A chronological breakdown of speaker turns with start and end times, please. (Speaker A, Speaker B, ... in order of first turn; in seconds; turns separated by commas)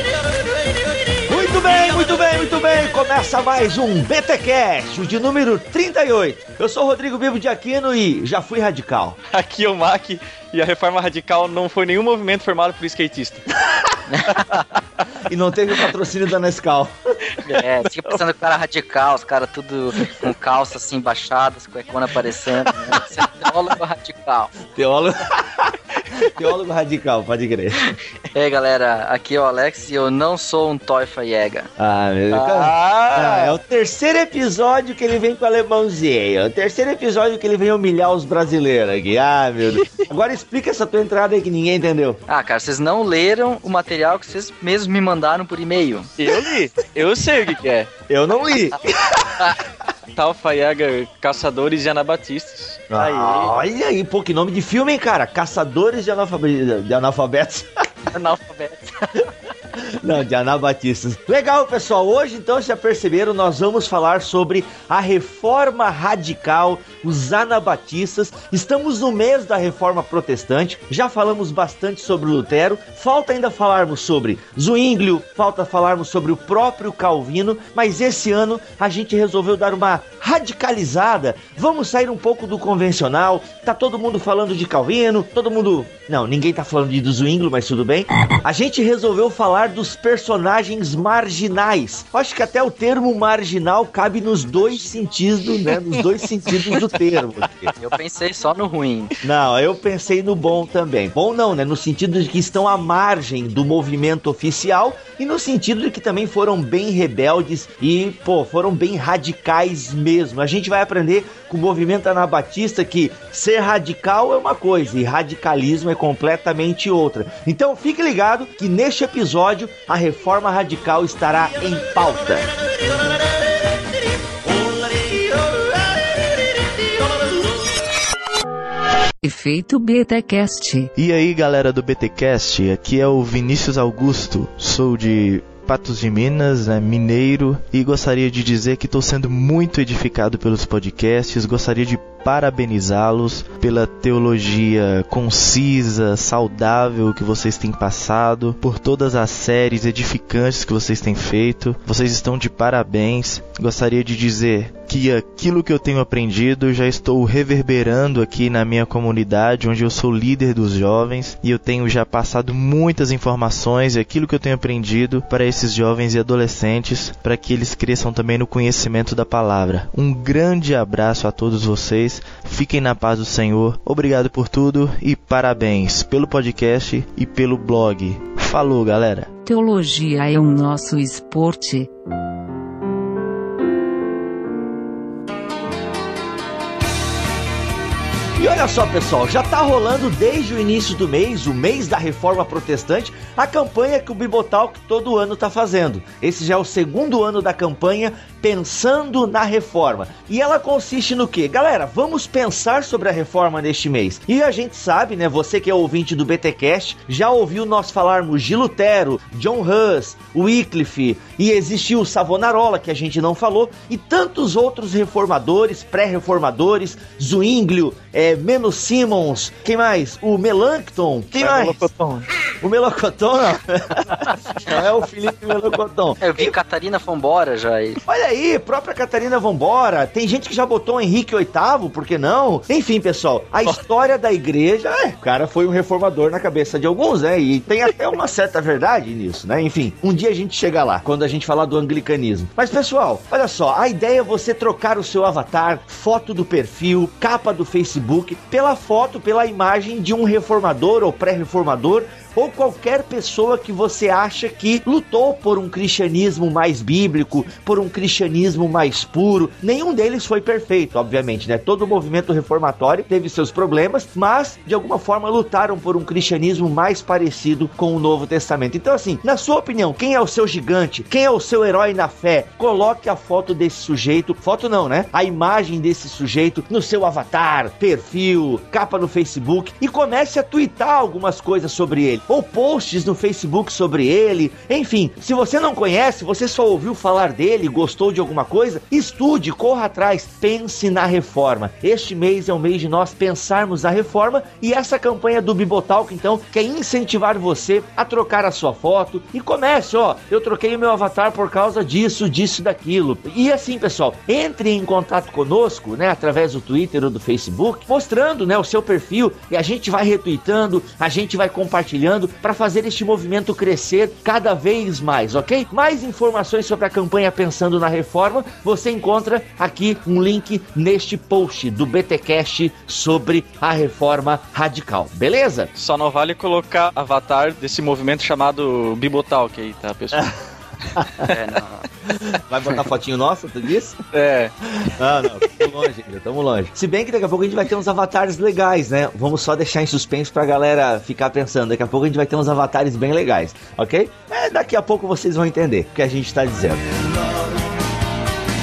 Speaker A: 1.3-9.2, Speaker B: 9.3-13.5, Speaker C: 14.1-14.4, Speaker B: 14.3-14.8, Speaker A: 15.2-16.9, Speaker C: 17.4-24.5, Speaker A: 24.7-27.8, Speaker C: 28.3-31.7, Speaker A: 31.8-42.2, Speaker B: 32.3-33.6, Speaker B: 39.8-40.0, Speaker C: 42.3-46.1, Speaker B: 46.2-47.9, Speaker A: 48.1-49.4, Speaker B: 50.1-52.9, Speaker A: 52.9-58.1, Speaker C: 53.0-53.5, Speaker C: 58.1-59.2, Speaker A: 59.8-97.7, Speaker C: 97.8-99.1, Speaker A: 99.2-122.5, Speaker A: 124.7-125.5, Speaker D: 129.2-130.9, Speaker E: 130.9-179.3, Speaker D: 179.4-181.9, Speaker A: 188.3-221.9, Speaker B: 221.4-222.3, Speaker A: 222.6-226.5, Speaker C: 226.2-228.0, Speaker A: 228.1-325.7, Speaker B: 325.8-330.3, Speaker B: 330.9-331.3, Speaker C: 331.2-331.9, Speaker A: 332.4-334.0, Speaker B: 334.1-334.9, Speaker A: 335.0-347.6